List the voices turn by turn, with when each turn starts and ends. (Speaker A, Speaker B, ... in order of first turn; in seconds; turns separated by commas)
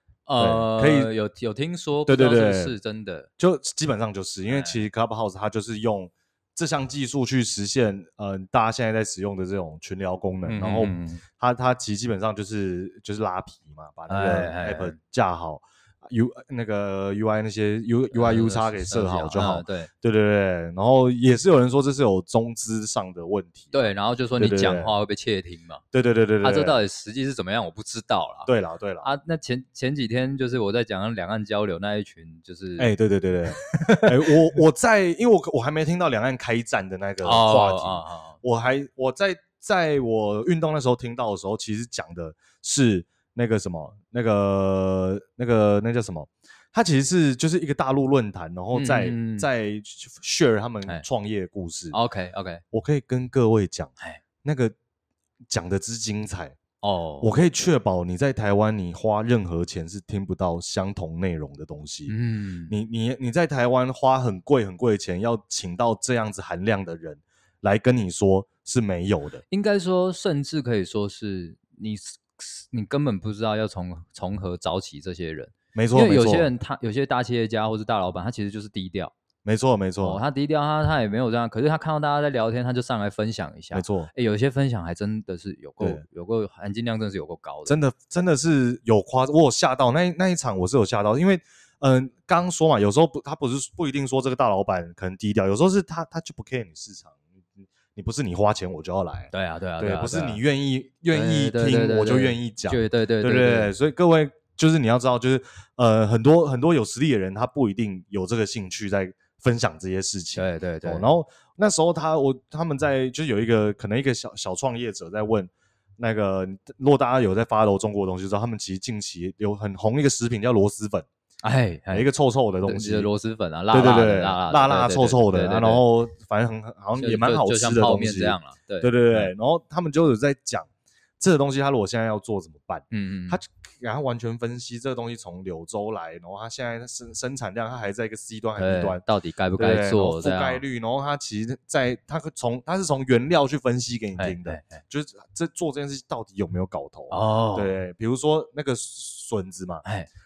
Speaker A: 0.3-3.3, Speaker B: 0.4-1.1, Speaker B: 2.0-2.7, Speaker B: 3.4-24.9, Speaker A: 4.5-4.8, Speaker A: 10.4-11.2, Speaker A: 14.1-15.0, Speaker A: 18.1-19.9, Speaker A: 23.7-25.8, Speaker B: 25.9-26.8, Speaker A: 26.4-28.5, Speaker B: 28.4-29.1, Speaker A: 29.0-32.9, Speaker B: 32.8-52.0, Speaker A: 33.6-34.3, Speaker A: 37.2-38.4, Speaker A: 48.7-49.5, Speaker A: 51.9-52.6, Speaker B: 52.7-53.9, Speaker B: 54.4-54.7, Speaker B: 55.5-56.6, Speaker A: 56.8-57.3, Speaker B: 57.2-62.1, Speaker A: 62.1-62.7, Speaker B: 62.7-69.4, Speaker A: 69.5-79.1, Speaker B: 75.7-76.5, Speaker B: 79.4-80.2, Speaker A: 80.0-87.8, Speaker B: 83.7-84.1, Speaker B: 87.7-121.1, Speaker A: 99.3-100.4, Speaker A: 101.1-103.7, Speaker A: 110.3-111.1, Speaker A: 121.4-122.1, Speaker B: 121.9-123.1, Speaker A: 122.7-125.8, Speaker B: 123.7-130.7, Speaker A: 127.0-129.3, Speaker B: 131.2-139.0, Speaker A: 132.9-133.4, Speaker A: 138.6-140.6, Speaker B: 139.6-149.8, Speaker A: 144.2-144.8, Speaker A: 147.1-147.8, Speaker A: 149.8-150.1